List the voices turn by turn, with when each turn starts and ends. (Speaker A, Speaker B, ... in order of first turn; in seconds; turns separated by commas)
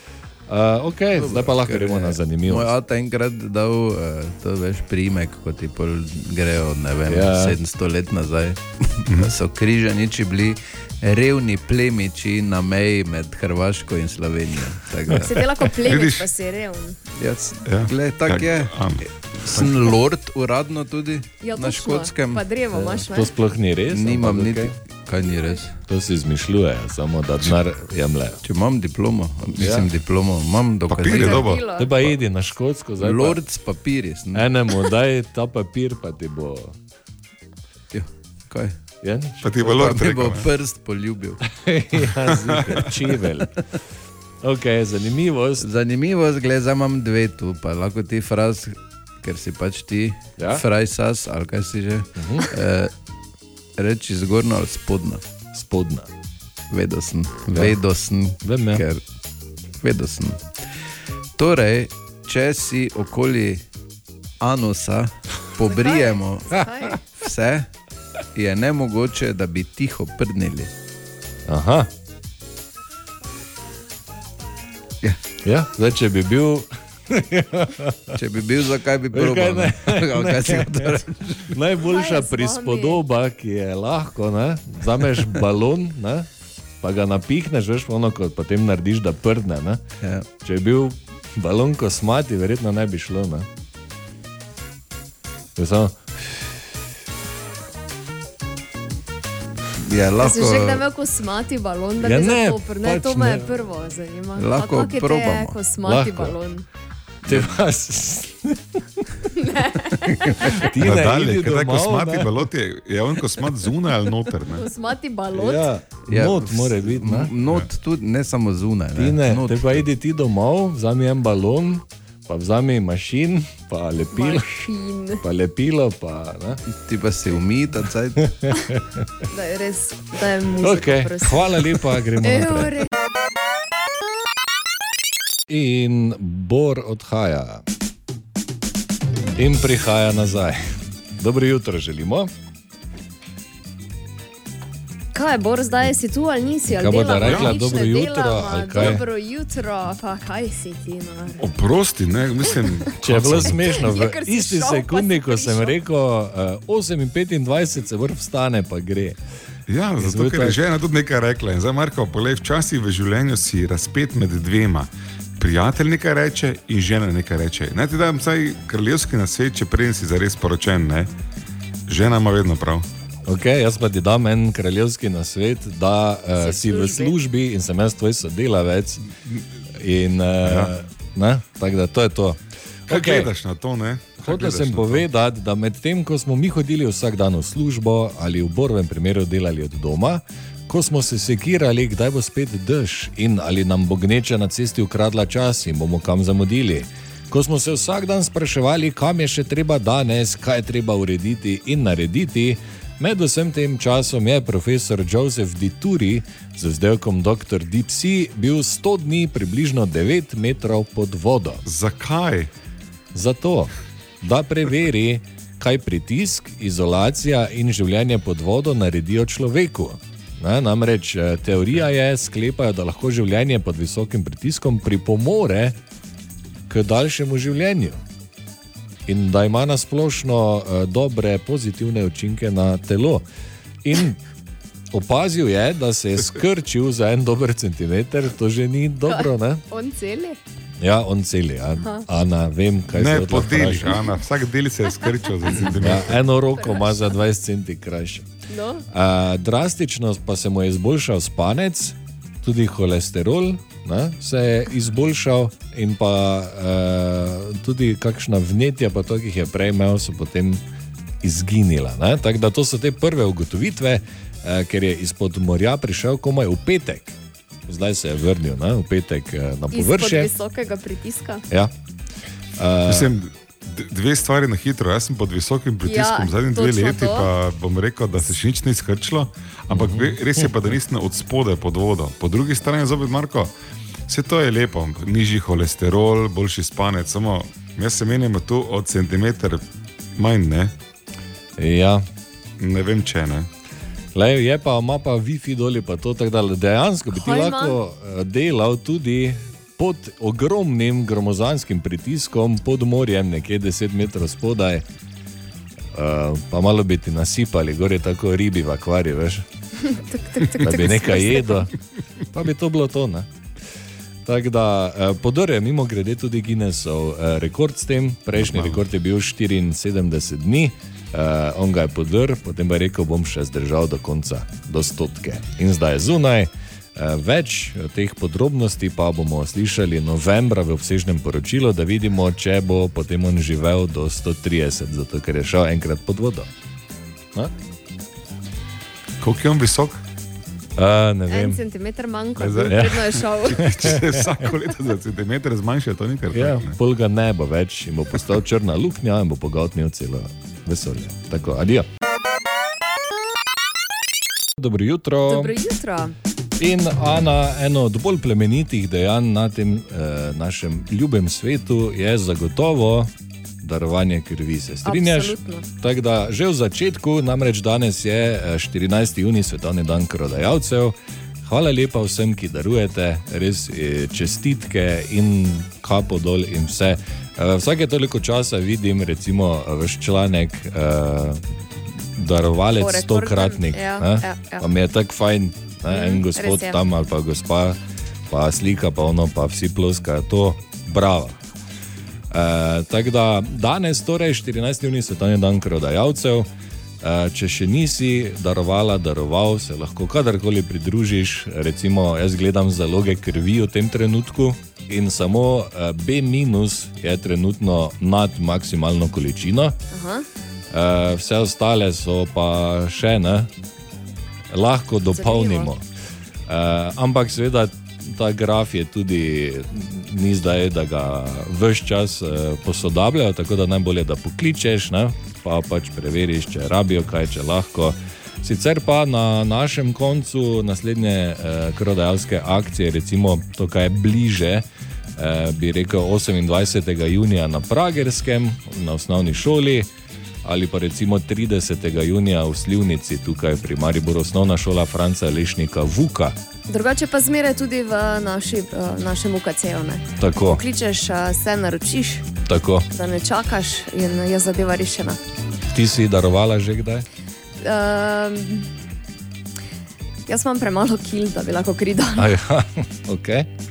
Speaker A: 0.5-2.7, Speaker B: 1.1-15.5, Speaker A: 7.1-7.6, Speaker C: 9.1-9.3, Speaker D: 15.2-17.0, Speaker C: 15.8-16.3, Speaker B: 17.1-18.8, Speaker C: 17.6-19.9, Speaker B: 19.4-22.4, Speaker D: 21.4-23.3, Speaker A: 22.7-24.7, Speaker B: 23.9-25.7, Speaker D: 25.2-25.6, Speaker A: 25.9-28.4, Speaker B: 28.4-31.5, Speaker A: 29.6-29.9, Speaker C: 30.9-31.6, Speaker D: 31.0-32.1, Speaker A: 31.7-33.4, Speaker B: 33.0-34.8, Speaker A: 34.3-36.8, Speaker B: 37.9-38.8, Speaker A: 39.0-39.5, Speaker C: 39.4-40.5, Speaker B: 39.6-41.4, Speaker A: 41.4-43.6, Speaker C: 42.4-42.9, Speaker A: 44.4-45.7, Speaker B: 45.6-52.9, Speaker A: 50.4-50.6, Speaker A: 52.1-52.5, Speaker B: 53.8-55.2, Speaker A: 55.5-56.1, Speaker B: 56.7-59.0, Speaker A: 58.4-58.8, Speaker B: 59.8-60.5, Speaker B: 61.4-63.6, Speaker B: 64.4-66.5, Speaker D: 65.6-67.0, Speaker A: 66.5-66.9, Speaker B: 67.1-67.7, Speaker B: 68.3-70.7, Speaker A: 71.5-71.9, Speaker A: 75.4-78.2, Speaker B: 78.1-81.5, Speaker A: 79.1-86.3, Speaker D: 81.8-83.0, Speaker A: 86.8-89.8, Speaker B: 90.0-90.3, Speaker A: 90.4-93.5, Speaker A: 95.5-96.0, Speaker B: 99.8-100.8, Speaker D: 100.2-106.7, Speaker A: 102.0-103.5, Speaker B: 104.4-105.6, Speaker A: 105.8-106.3, Speaker A: 107.2-109.0, Speaker D: 109.3-110.5, Speaker A: 110.2-112.5, Speaker C: 110.8-114.7, Speaker D: 114.5-115.7, Speaker A: 115.3-117.3, Speaker B: 116.1-119.8, Speaker A: 118.9-124.7, Speaker D: 124.1-125.2, Speaker A: 125.2-126.6, Speaker B: 126.7-128.3, Speaker A: 128.4-129.1, Speaker D: 129.3-132.9, Speaker A: 130.6-132.8, Speaker A: 135.5-137.6, Speaker A: 139.3-140.6, Speaker A: 141.2-142.3, Speaker D: 145.1-151.4, Speaker A: 146.7-149.0, Speaker C: 147.2-147.6, Speaker C: 151.4-153.8, Speaker A: 153.0-159.2, Speaker D: 153.7-155.7, Speaker C: 159.7-171.1, Speaker A: 160.0-160.6, Speaker C: 171.9-172.8, Speaker A: 173.2-179.0, Speaker D: 176.4-177.2, Speaker A: 179.7-183.3, Speaker C: 180.4-180.7, Speaker C: 182.9-185.0, Speaker A: 184.2-211.6, Speaker C: 211.6-212.5, Speaker A: 213.1-225.8, Speaker A: 226.7-228.0, Speaker A: 229.1-233.2, Speaker A: 233.8-234.2, Speaker A: 234.9-239.6, Speaker D: 239.1-240.4, Speaker A: 240.8-244.0, Speaker D: 241.8-242.1, Speaker C: 242.9-246.2, Speaker A: 245.6-248.3, Speaker D: 246.6-247.1, Speaker D: 248.5-248.8, Speaker A: 248.9-260.6, Speaker A: 261.2-267.1, Speaker A: 267.7-270.3, Speaker D: 269.7-271.4, Speaker A: 272.6-273.1, Speaker C: 272.9-283.5, Speaker D: 275.8-277.3, Speaker A: 279.7-280.6, Speaker C: 284.1-289.6, Speaker C: 290.1-290.7, Speaker A: 291.6-292.1, Speaker C: 292.6-293.5, Speaker A: 294.1-304.8, Speaker D: 297.1-297.8, Speaker A: 305.9-309.4, Speaker D: 309.8-311.6, Speaker A: 310.6-311.7, Speaker A: 312.3-313.3, Speaker A: 314.2-336.5, Speaker C: 318.4-318.8, Speaker C: 339.2-340.0, Speaker A: 340.8-341.6, Speaker D: 341.3-343.7, Speaker C: 342.4-346.8, Speaker A: 342.7-344.3, Speaker A: 346.3-351.9, Speaker A: 354.6-355.5, Speaker D: 355.3-356.1, Speaker A: 356.6-381.4, Speaker D: 364.8-365.6, Speaker A: 382.1-387.8, Speaker D: 382.8-384.7, Speaker D: 385.9-386.8, Speaker A: 388.3-391.4, Speaker A: 392.3-396.5, Speaker A: 397.0-409.8, Speaker D: 409.9-410.2, Speaker A: 410.7-413.5, Speaker A: 414.5-415.8, Speaker D: 415.1-415.7, Speaker A: 416.5-439.9, Speaker A: 440.4-446.4, Speaker D: 446.7-452.2, Speaker A: 450.2-450.6, Speaker A: 452.4-452.9, Speaker D: 452.9-455.2, Speaker A: 455.7-457.1, Speaker D: 457.6-458.7, Speaker D: 460.3-462.3, Speaker A: 462.2-463.5